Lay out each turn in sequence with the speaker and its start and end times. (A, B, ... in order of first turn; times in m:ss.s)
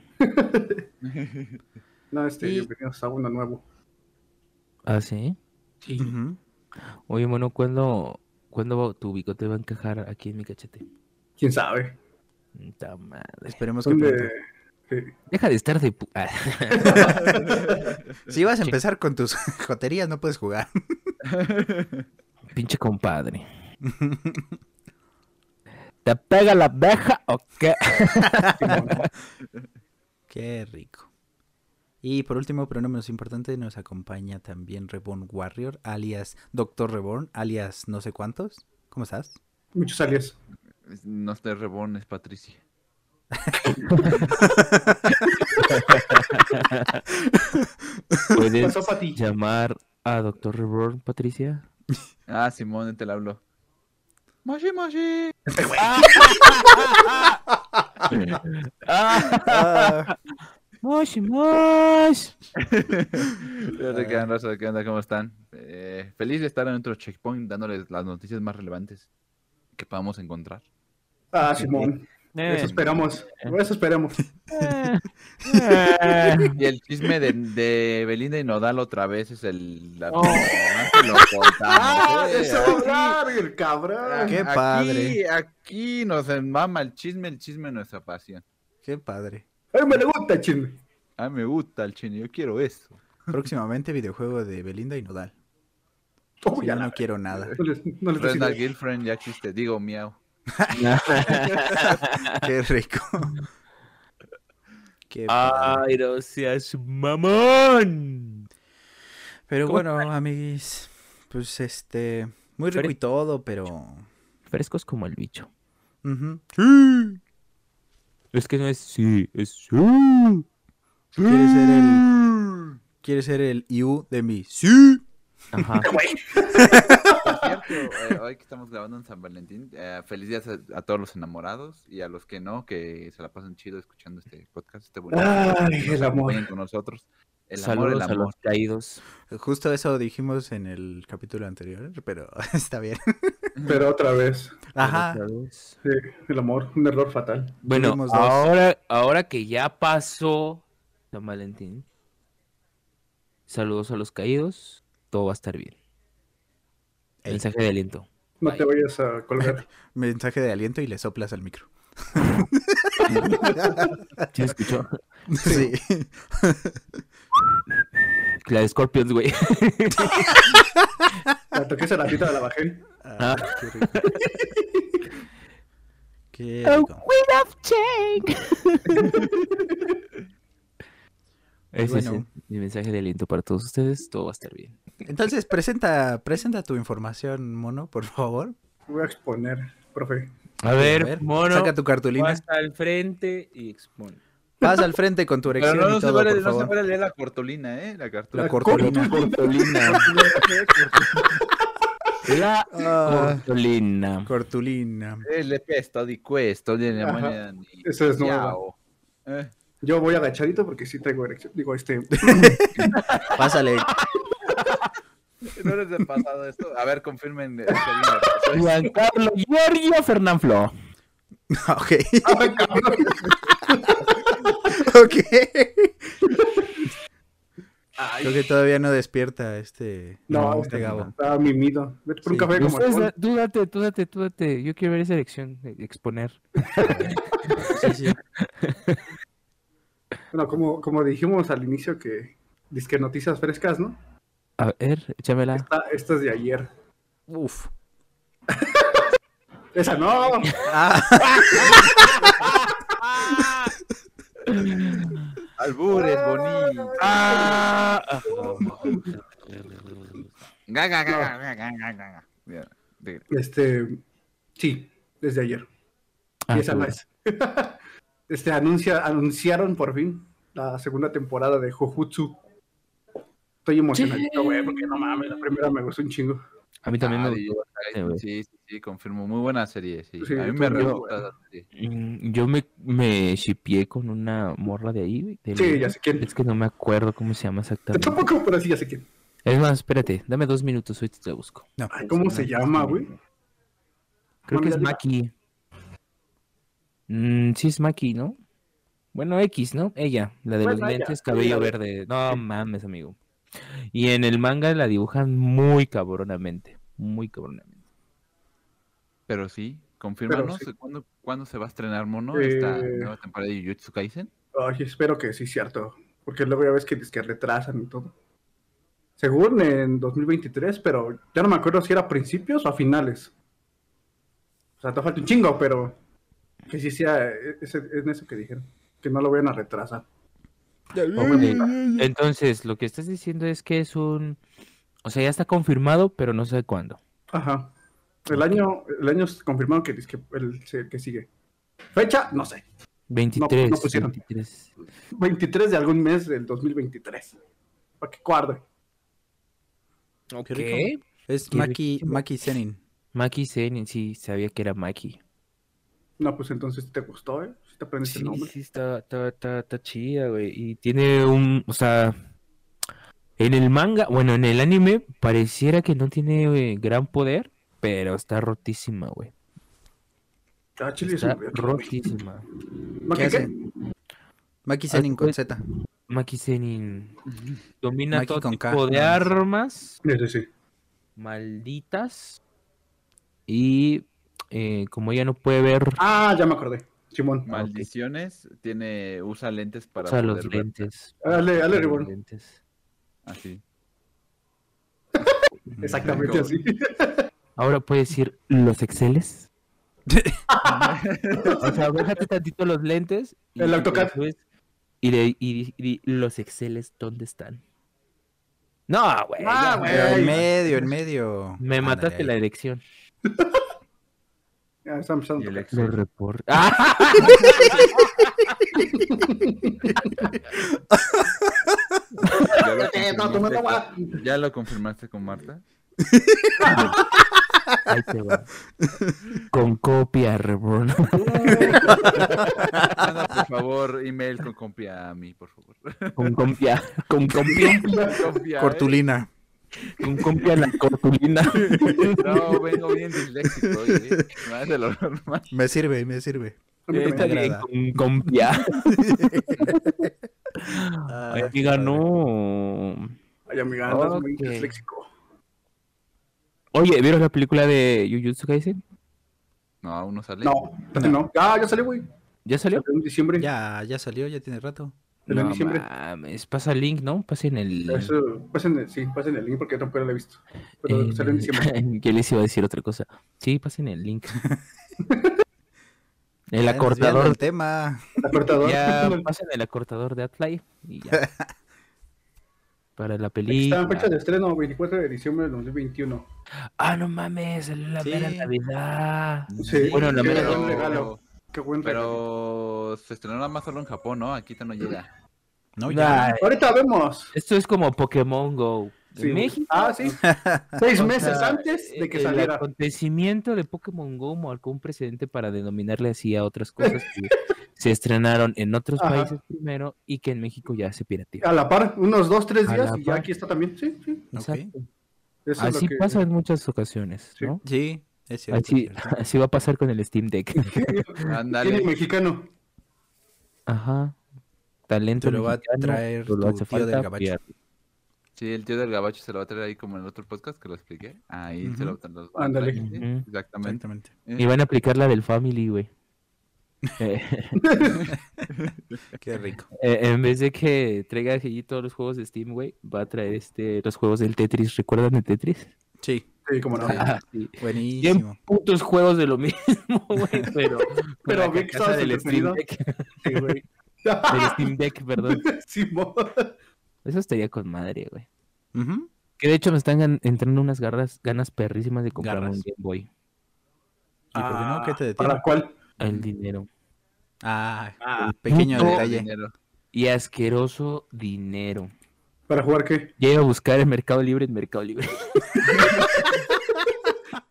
0:00.2-0:00.8 A
0:01.0-0:01.6 B
0:02.1-0:03.6 A
0:02.4-0:02.7 C
0:04.8-0:05.4 D
0:05.8-0:06.1 A
0:06.0-0:06.4 C
0:07.1-0:10.8 D
0:11.4-0:11.9 A
0:12.5-0:13.6 D
0:13.4-0:14.3 C
0:13.8-0:15.1 A
0:15.3-0:17.1 D
0:16.8-0:17.8 A
0:17.0-0:17.5 C
0:17.5-0:17.8 B
0:18.3-0:21.1 C
0:21.2-0:22.1 B
0:22.5-0:23.4 D
0:23.8-0:24.6 C
0:26.0-0:29.0 D
0:28.5-0:29.1 A
0:30.3-0:31.1 C
0:32.0-0:39.4 C
0:39.8-0:40.4 A
0:40.8-0:42.6 B
0:43.8-0:44.2 D
0:44.4-0:45.2 C
0:45.1-0:47.0 D
0:47.1-0:48.2 C
0:48.3-0:51.7 D
0:48.6-0:49.2 A
0:52.3-0:53.4 B
0:54.4-0:55.4 B
0:55.6-0:56.7 A
0:55.8-0:57.4 D
0:58.1-1:00.1 D
0:59.4-1:00.1 C
1:00.8-1:02.3 D
1:02.6-1:09.1 B
1:03.9-1:04.3 C
1:09.8-1:10.6 B
1:11.3-1:14.2 A
1:11.5-1:12.8 D
1:12.6-1:13.1 B
1:14.5-1:16.6 D
1:15.4-1:16.4 C
1:16.5-1:23.2 B
1:20.1-1:21.2 D
1:21.7-1:24.4 A
1:21.8-1:22.7 D
1:24.0-1:28.4 B
1:24.3-1:25.2 C
1:28.8-1:29.4 C
1:29.7-1:30.8 A
1:31.2-1:33.0 B
1:33.3-1:35.3 C
1:36.4-1:37.0 A
1:36.6-1:37.5 C
1:37.3-1:37.6 B
1:37.6-1:38.6 A
1:38.1-1:40.2 B
1:40.5-1:43.4 C
1:40.7-1:42.4 D
1:45.1-1:45.8 C
1:45.3-1:48.4 D
1:49.5-1:54.1 C
1:49.6-1:50.1 D
1:54.5-1:55.5 D
1:56.0-1:57.2 C
1:58.3-2:00.4 D
2:01.2-2:05.0 C
2:05.5-2:05.9 D
2:05.8-2:07.3 A
2:06.6-2:07.0 C
2:06.9-2:18.3 B
2:15.1-2:16.4 A
2:17.6-2:19.0 D
2:19.3-2:23.5 C
2:23.6-2:23.9 B
2:23.6-2:24.6 A
2:24.7-2:25.2 C
2:24.8-2:25.8 D
2:25.8-2:27.6 A
2:27.6-2:31.9 D
2:27.7-2:28.4 C
2:33.5-2:35.8 D
2:37.3-2:38.7 D
2:38.4-2:39.6 A
2:39.4-2:44.2 C
2:43.2-2:43.4 A
2:44.3-2:45.0 D
2:45.3-2:46.8 C
2:45.4-2:45.7 A
2:48.4-2:50.6 D
2:51.5-2:52.9 A
2:53.0-2:54.0 C
2:53.2-2:54.2 D
2:54.2-2:55.0 A
2:56.3-2:57.0 C
2:56.6-2:59.2 D
3:01.7-3:04.8 D
3:01.8-3:02.3 C
3:05.0-3:08.6 C
3:08.9-3:10.3 A
3:10.6-3:14.2 D
3:10.8-3:12.4 C
3:14.6-3:16.7 C
3:15.6-3:18.7 B
3:18.3-3:20.0 C
3:18.4-3:20.9 A
3:18.7-3:20.4 D
3:20.8-3:21.4 B
3:22.2-3:24.3 D
3:22.7-3:23.4 C
3:24.2-3:25.2 C
3:25.2-3:28.8 B
3:27.0-3:28.6 A
3:29.2-3:29.5 B
3:29.8-3:33.0 A
3:32.2-3:33.9 C
3:33.0-3:33.3 D
3:34.5-3:34.8 A
3:35.6-3:38.8 B
3:37.7-3:38.4 A
3:38.5-3:40.7 D
3:41.5-3:43.2 C
3:42.2-3:44.8 A
3:44.8-3:46.2 C
3:46.3-3:46.8 A
3:48.0-3:48.4 A
3:48.2-3:51.1 C
3:50.3-3:53.1 A
3:52.5-3:57.7 D
3:56.8-3:58.2 C
3:58.4-3:59.0 D
4:00.3-4:04.0 A
4:04.6-4:05.7 D
4:05.5-4:06.7 A
4:07.3-4:07.7 C
4:08.5-4:09.1 A
4:09.8-4:10.6 A
4:10.6-4:12.1 C
4:11.5-4:12.7 A
4:11.6-4:12.0 D
4:13.2-4:13.7 D
4:14.4-4:15.4 D
4:15.6-4:17.7 B
4:15.9-4:17.6 A
4:17.0-4:20.4 D
4:18.3-4:19.2 A
4:20.7-4:23.2 B
4:21.1-4:21.3 A
4:23.3-4:24.0 A
4:24.6-4:25.7 A
4:26.5-4:27.0 D
4:26.5-4:32.4 A
4:33.6-4:36.4 A
4:33.9-4:35.7 D
4:36.8-4:38.2 D
4:37.0-4:41.7 B
4:40.2-4:41.2 A
4:40.7-4:41.0 D
4:41.7-4:48.2 D
4:45.6-4:46.3 A
4:47.9-4:49.0 A
4:49.4-4:53.2 D
4:51.8-4:52.1 C
4:51.9-4:53.1 A
4:54.5-4:55.3 D
4:54.5-4:55.0 A
4:57.1-4:58.4 D
4:59.1-5:03.2 D
5:00.6-5:01.7 A
5:03.9-5:07.8 D
5:09.3-5:14.3 B
5:10.3-5:10.7 A
5:12.3-5:13.1 A
5:14.6-5:18.1 A
5:19.2-5:23.3 A
5:24.8-5:26.0 A
5:26.7-5:30.0 A
5:30.9-5:32.1 C
5:31.1-5:31.7 A
5:31.3-5:34.4 D
5:35.0-5:37.0 D
5:37.3-5:37.7 A
5:38.3-5:41.3 A
5:41.9-5:42.6 A
5:43.1-5:44.7 D
5:43.4-5:44.2 A
5:45.1-5:47.3 A
5:48.0-5:48.6 A
5:50.3-5:52.2 D
5:50.5-5:52.8 C
5:53.1-5:55.2 D
5:56.2-5:58.5 A
5:58.0-6:02.2 D
6:03.4-6:09.3 D
6:10.8-6:12.0 A
6:11.0-6:12.4 D
6:13.0-6:13.6 A
6:13.1-6:13.5 C
6:14.6-6:15.6 C
6:14.9-6:15.4 D
6:16.1-6:17.2 D
6:17.3-6:17.6 B
6:17.8-6:20.0 D
6:18.1-6:19.3 C
6:20.0-6:20.5 A
6:21.2-6:22.4 D
6:23.5-6:26.0 D
6:26.0-6:27.5 A
6:27.4-6:30.8 B
6:27.5-6:27.9 D
6:30.0-6:32.6 D
6:31.2-6:32.1 A
6:33.2-6:33.6 B
6:35.2-6:37.2 A
6:35.7-6:36.3 C
6:36.0-6:36.5 B
6:37.6-6:39.5 D
6:40.1-6:40.4 C
6:40.5-6:41.8 A
6:40.6-6:41.6 B
6:41.6-6:44.4 D
6:43.6-6:44.2 A
6:45.0-6:47.6 D
6:48.9-6:50.4 D
6:49.4-6:50.5 A
6:49.8-6:52.3 C
6:51.6-6:52.8 D
6:53.3-6:53.6 A
6:54.8-6:55.7 A
6:55.4-6:56.0 B
6:55.7-6:57.9 D
6:58.8-7:00.3 A
7:00.9-7:01.8 C
7:02.3-7:04.2 A
7:02.4-7:05.6 B
7:06.0-7:06.8 C
7:06.6-7:06.9 A
7:06.7-7:06.9 D
7:07.8-7:08.5 D
7:08.8-7:09.1 C
7:09.5-7:13.0 D
7:11.3-7:12.4 A
7:11.5-7:12.1 B
7:12.8-7:16.4 B
7:16.2-7:17.9 D
7:17.5-7:18.2 A
7:17.6-7:19.0 B
7:18.6-7:19.3 C
7:20.0-7:22.3 D
7:22.2-7:25.5 B
7:23.6-7:24.1 C
7:25.5-7:27.7 C
7:26.9-7:27.3 A
7:26.9-7:29.9 D
7:28.8-7:29.8 C
7:30.6-7:33.2 D
7:31.1-7:32.0 C
7:33.5-7:35.1 A
7:33.9-7:34.8 D
7:36.7-7:38.8 D
7:39.8-7:40.7 B
7:40.4-7:42.0 A
7:41.0-7:41.2 C
7:42.4-7:42.8 D
7:42.8-7:43.5 A
7:43.4-7:44.9 C
7:45.3-7:48.1 D
7:45.3-7:45.9 A
7:47.9-7:51.7 A
7:50.8-7:54.4 D
7:55.1-7:55.4 A
7:56.5-7:57.4 D
7:56.6-7:58.0 C
7:58.2-7:59.3 A
7:58.6-8:01.2 D
8:01.1-8:01.5 C
8:03.0-8:04.1 D
8:03.5-8:06.2 A
8:06.8-8:10.9 D
8:08.0-8:08.5 C
8:09.5-8:11.2 B
8:09.6-8:10.2 C
8:09.6-8:12.2 A
8:11.8-8:15.1 B
8:15.8-8:16.3 C
8:15.9-8:16.6 D
8:16.4-8:17.3 A
8:17.3-8:19.9 D
8:19.2-8:20.2 A
8:20.2-8:20.8 C
8:20.8-8:22.6 A
8:20.9-8:31.5 D
8:29.0-8:29.3 A
8:31.4-8:34.3 A
8:32.6-8:33.3 D
8:34.3-8:34.7 C
8:34.4-8:34.9 D
8:35.4-8:36.2 A
8:35.6-8:37.6 D
8:37.6-8:39.1 C
8:38.5-8:41.2 D
8:40.6-8:42.5 A
8:41.2-8:41.9 B
8:43.7-8:44.2 D
8:44.9-8:47.5 D
8:45.2-8:47.3 C
8:48.4-8:54.5 B
8:51.6-8:52.0 C
8:52.4-8:52.8 A
8:52.7-8:53.2 D
8:53.6-8:54.1 C
8:54.4-8:55.9 D
8:57.0-8:57.6 D
8:57.6-8:58.0 A
8:58.0-8:59.0 B
8:59.2-8:59.7 C
8:59.8-9:05.7 D
9:06.0-9:07.0 C
9:06.5-9:07.1 A
9:06.8-9:13.6 D
9:07.6-9:08.4 C
9:11.2-9:12.6 A
9:13.2-9:16.5 A
9:14.3-9:15.4 D
9:17.0-9:18.3 D
9:18.7-9:19.1 C
9:19.4-9:23.1 D
9:22.2-9:22.6 C
9:24.3-9:25.4 C
9:24.3-9:25.7 A
9:26.0-9:26.7 D
9:27.4-9:29.3 C
9:28.0-9:28.4 A
9:28.5-9:29.0 D
9:28.6-9:29.5 B
9:29.9-9:31.9 D
9:32.5-9:33.1 A
9:33.2-9:35.9 D
9:35.6-9:36.4 A